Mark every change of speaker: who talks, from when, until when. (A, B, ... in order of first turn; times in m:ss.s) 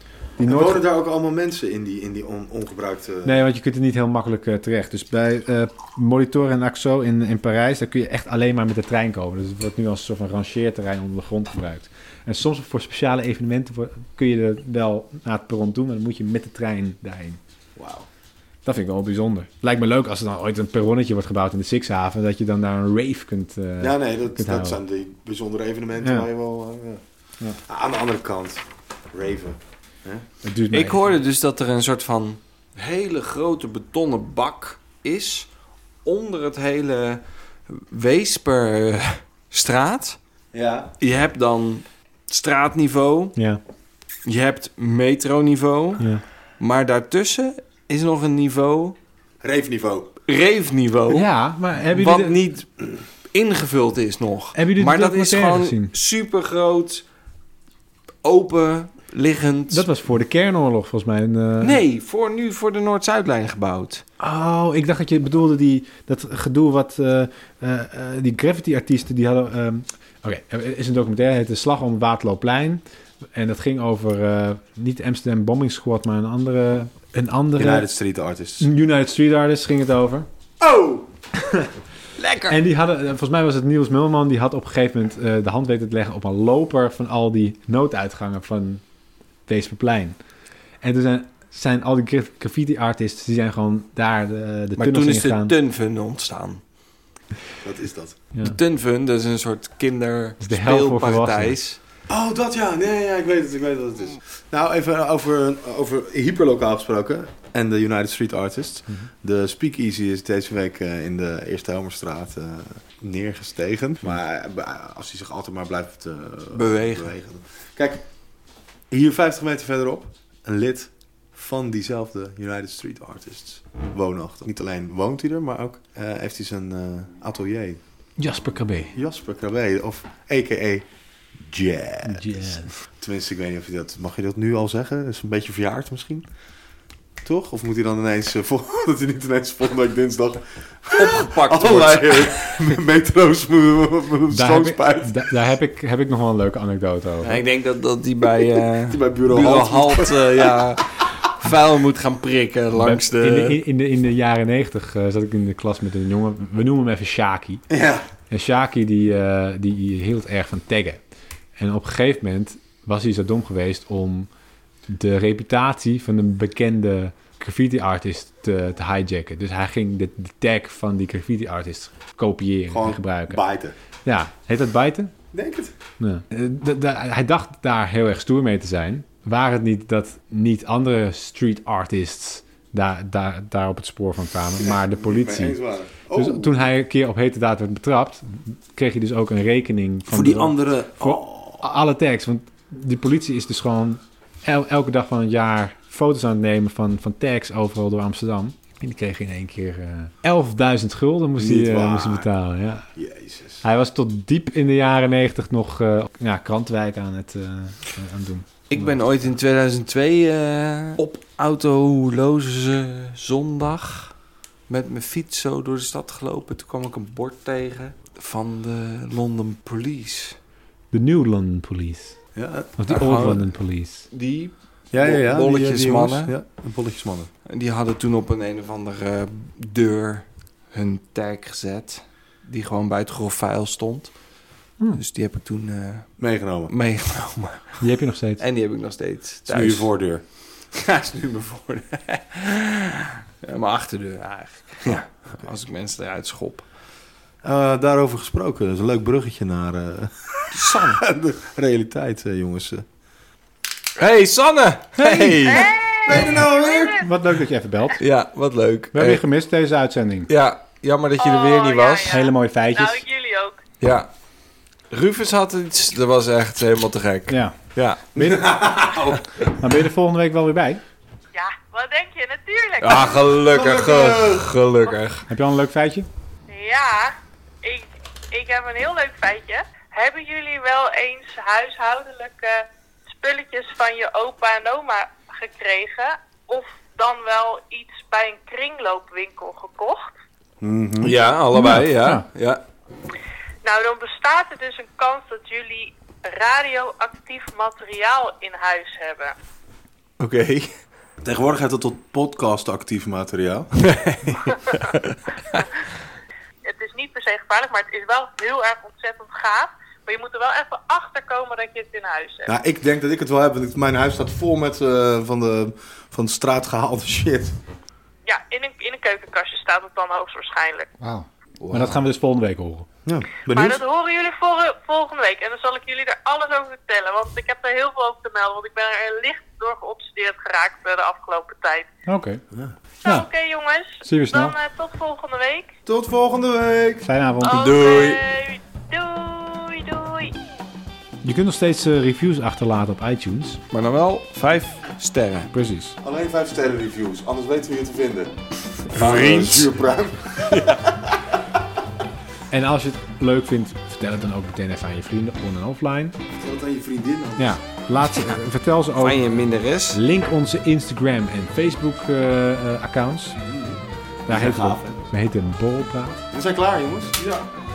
0:00.4-0:00.8 A
0:00.4-0:03.4 B
0:03.2-0:17.4 A
0:17.8-0:18.1 B
0:18.6-0:24.8 A
0:23.8-0:27.0 B
0:26.0-0:26.3 A
0:27.6-0:30.2 B
0:30.4-0:31.2 A
0:30.7-0:35.5 C
0:36.0-0:40.2 C
0:40.5-0:40.9 B
0:41.0-0:43.4 C
0:43.4-0:43.6 A
0:44.2-0:46.0 C
0:46.6-0:49.0 C
0:49.4-0:50.1 B
0:50.3-0:51.3 C
0:51.1-0:52.4 A
0:51.9-0:57.0 C
0:54.5-0:55.9 A
0:58.2-0:59.9 C
0:59.7-1:01.8 A
1:01.6-1:04.0 C
1:04.2-1:12.8 A
1:13.3-1:17.9 A
1:17.6-1:18.7 B
1:18.6-1:20.3 A
1:20.6-1:21.1 B
1:22.2-1:22.5 C
1:22.5-1:28.8 A
1:29.5-1:30.2 A
1:30.8-1:35.5 A
1:34.8-1:36.6 C
1:37.6-1:38.2 B
1:38.4-1:41.8 C
1:40.4-1:41.6 A
1:42.1-1:58.0 B
1:56.5-1:57.1 C
1:58.9-2:07.8 B
2:08.2-2:08.9 A
2:08.9-2:10.8 B
2:11.4-2:16.2 B
2:12.0-2:12.7 A
2:17.2-2:25.3 B
2:21.0-2:22.7 C
2:24.3-2:27.4 A
2:27.2-2:33.6 C
2:28.9-2:30.8 B
2:32.8-2:37.6 A
2:37.7-2:38.0 B
2:38.3-2:41.0 A
2:41.6-2:44.3 A
2:44.9-2:53.4 A
2:52.7-2:53.8 B
2:54.0-2:55.1 A
2:55.3-2:55.7 B
2:56.0-3:05.6 A
3:04.6-3:06.6 B
3:06.1-3:22.9 A
3:10.1-3:11.6 B
3:21.4-3:22.3 B
3:22.9-3:23.6 B
3:23.6-3:29.0 A
3:28.7-3:34.1 C
3:34.7-3:40.4 C
3:40.9-3:42.2 A
3:42.3-3:42.7 B
3:42.8-3:44.1 A
3:42.9-3:43.5 C
3:44.1-3:46.3 C
3:44.9-3:47.3 B
3:47.5-3:54.1 C
3:54.9-3:57.8 C
3:56.2-3:56.7 B
3:57.8-3:58.4 A
3:58.4-3:59.9 C
3:59.5-4:00.2 B
4:00.7-4:06.6 C
4:07.4-4:12.8 B
4:10.5-4:11.0 C
4:14.0-4:16.3 C
4:15.0-4:17.0 B
4:15.4-4:17.1 D
4:17.0-4:18.0 A
4:18.0-4:19.2 C
4:18.9-4:20.3 A
4:20.3-4:22.2 C
4:21.2-4:23.6 D
4:22.1-4:23.0 A
4:23.8-4:24.1 C
4:24.9-4:28.0 C
4:27.3-4:27.6 A
4:28.1-4:28.7 A
4:28.2-4:29.2 B
4:29.5-4:30.8 A
4:31.3-4:33.3 D
4:32.8-4:35.2 C
4:32.9-4:34.5 B
4:35.3-4:36.1 A
4:36.5-4:50.1 D
4:50.6-4:51.1 B
4:51.0-4:52.6 C
4:51.5-4:52.2 A
4:53.6-4:59.3 D
5:00.2-5:00.7 C
5:01.2-5:03.7 B
5:03.8-5:05.6 C
5:04.3-5:04.5 B
5:06.6-5:12.5 D
5:12.5-5:17.5 B
5:18.2-5:20.9 D
5:21.0-5:22.0 C
5:21.7-5:22.9 A
5:23.0-5:23.8 B
5:23.5-5:31.9 D
5:32.1-5:32.4 A
5:33.0-5:35.7 D
5:34.0-5:34.6 A
5:35.8-5:37.0 B
5:37.0-5:37.8 A
5:37.4-5:40.3 D
5:37.5-5:38.2 C
5:41.2-5:43.6 A
5:43.7-5:45.5 C
5:45.5-5:46.0 A
5:46.0-5:48.3 B
5:48.9-5:51.4 B
5:48.9-5:49.7 C
5:50.5-5:50.8 C
5:52.5-5:56.1 A
5:56.3-5:57.6 B
5:57.4-5:59.2 A
5:59.0-6:00.0 C
5:59.9-6:03.4 A
6:03.4-6:05.0 B
6:04.3-6:06.2 A
6:06.3-6:07.2 B